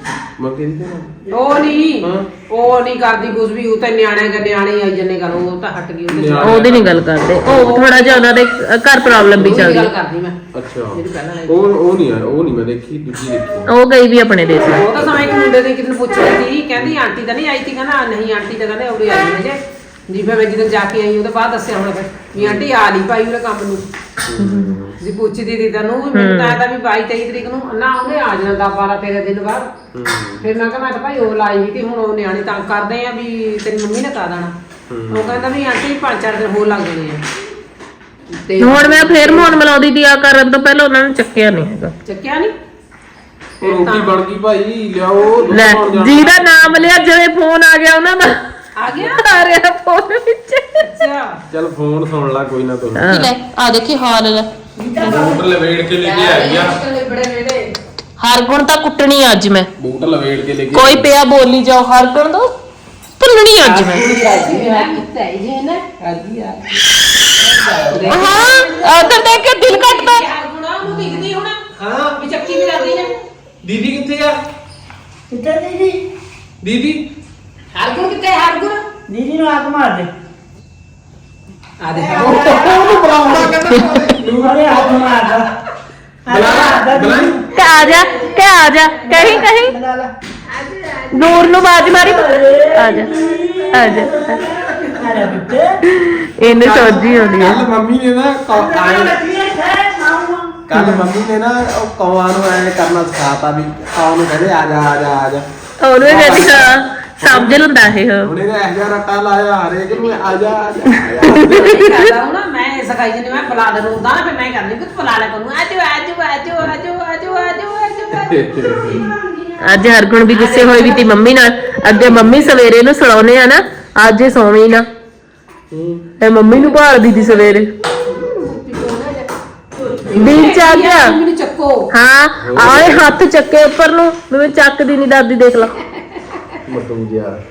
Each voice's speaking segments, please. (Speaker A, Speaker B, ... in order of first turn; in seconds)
Speaker A: 0.4-1.3, 2.0-2.3, 6.1-7.8, 9.3-9.7, 10.5-13.7, 15.0-15.3, 22.4-22.7, 24.2-25.0, 29.9-30.5, 34.9-35.5, 43.6-46.4, 51.5-53.3, 55.0-56.8, 59.8-61.1, 63.7-64.4, 67.9-68.4, 71.8-72.2, 73.6-74.4, 76.6-77.0, 82.2-85.4, 86.3-87.4, 96.4-99.2, 100.7-105.5, 106.0-107.7, 108.2-111.8, 118.1-119.0, 125.7-126.1, 132.4-133.1, 136.7-137.4
Speaker B: 1.3-6.7, 7.5-8.3, 9.3-10.4, 10.9-11.7, 14.7-23.8, 25.0-29.7, 30.4-34.5, 35.1-37.2, 38.4-39.6, 42.0-42.5, 43.6-44.1, 48.8-49.2, 50.8-51.4, 54.8-55.4, 56.0-57.6, 64.0-66.0, 67.6-71.6, 72.1-73.1, 77.7-78.8, 81.8-82.5, 87.5-89.4, 90.5-91.9, 93.0-93.7, 94.4-94.8, 111.4-119.4, 120.3-121.1, 128.1-129.3, 129.9-131.8
Speaker C: 6.4-9.9, 13.7-14.8, 24.4-24.7, 26.1-26.6, 38.6-41.9, 45.5-48.4, 49.0-51.0, 53.0-54.5, 58.2-59.7, 60.7-62.5, 63.2-64.1, 68.1-70.2, 83.7-84.0, 87.5-89.7, 91.1-93.1, 93.7-94.4, 95.8-97.6, 100.7-101.0, 105.8-108.3, 111.3-112.0, 119.6-124.8, 126.2-127.7, 130.1-131.1, 131.9-135.8
Speaker D: 64.0-64.9, 66.1-66.6, 67.9-68.7, 75.3-76.0, 79.1-80.1, 81.9-83.6, 84.3-85.5, 86.2-87.4, 89.1-90.1, 91.9-95.8, 98.5-100.6